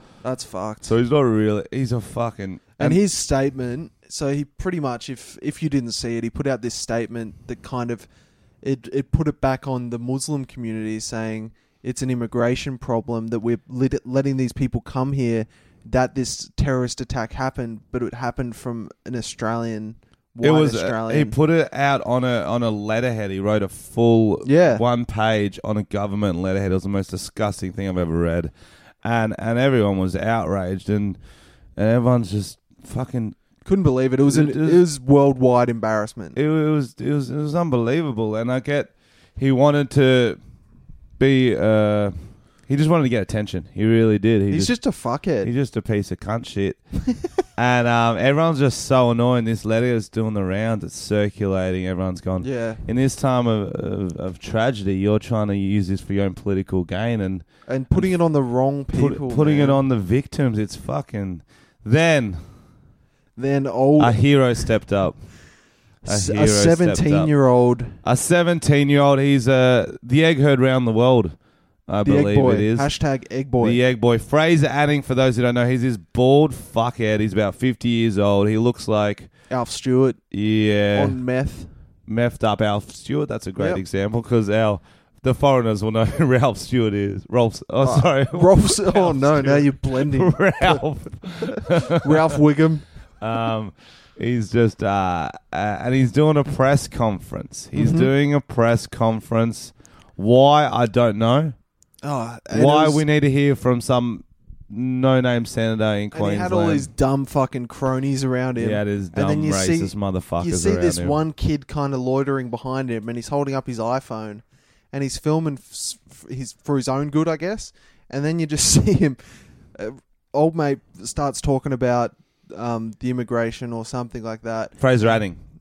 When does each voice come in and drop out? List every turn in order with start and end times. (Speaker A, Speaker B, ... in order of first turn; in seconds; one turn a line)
Speaker A: 0.2-0.9
Speaker B: 0.8-3.0
Speaker A: 2.8-8.1
Speaker A: 8.6-21.4
Speaker B: 20.4-28.5
Speaker A: 24.4-24.8
Speaker B: 29.0-31.2
Speaker B: 31.8-33.4
Speaker A: 33.6-36.4
Speaker B: 34.3-34.8
Speaker B: 36.4-40.4
Speaker B: 41.2-42.1
Speaker B: 42.7-44.7
Speaker A: 44.5-45.5
Speaker B: 45.4-46.8
Speaker B: 47.6-58.1
Speaker A: 52.4-52.8
Speaker A: 57.7-59.8
Speaker B: 58.9-62.4
Speaker A: 63.4-64.4
Speaker B: 64.0-65.3
Speaker B: 66.0-67.3
Speaker A: 66.0-68.0
Speaker B: 68.0-71.4
Speaker B: 71.9-72.9
Speaker A: 72.0-73.8
Speaker B: 73.6-79.3
Speaker A: 79.5-80.2
Speaker B: 80.3-81.2
Speaker A: 80.9-81.7
Speaker B: 82.1-92.4
Speaker A: 87.8-92.9
Speaker B: 93.2-101.5
Speaker A: 97.7-98.1
Speaker A: 102.0-103.0
Speaker B: 102.5-106.9
Speaker A: 106.1-119.2
Speaker B: 108.6-111.2
Speaker A: 119.8-125.2
Speaker B: 124.8-125.4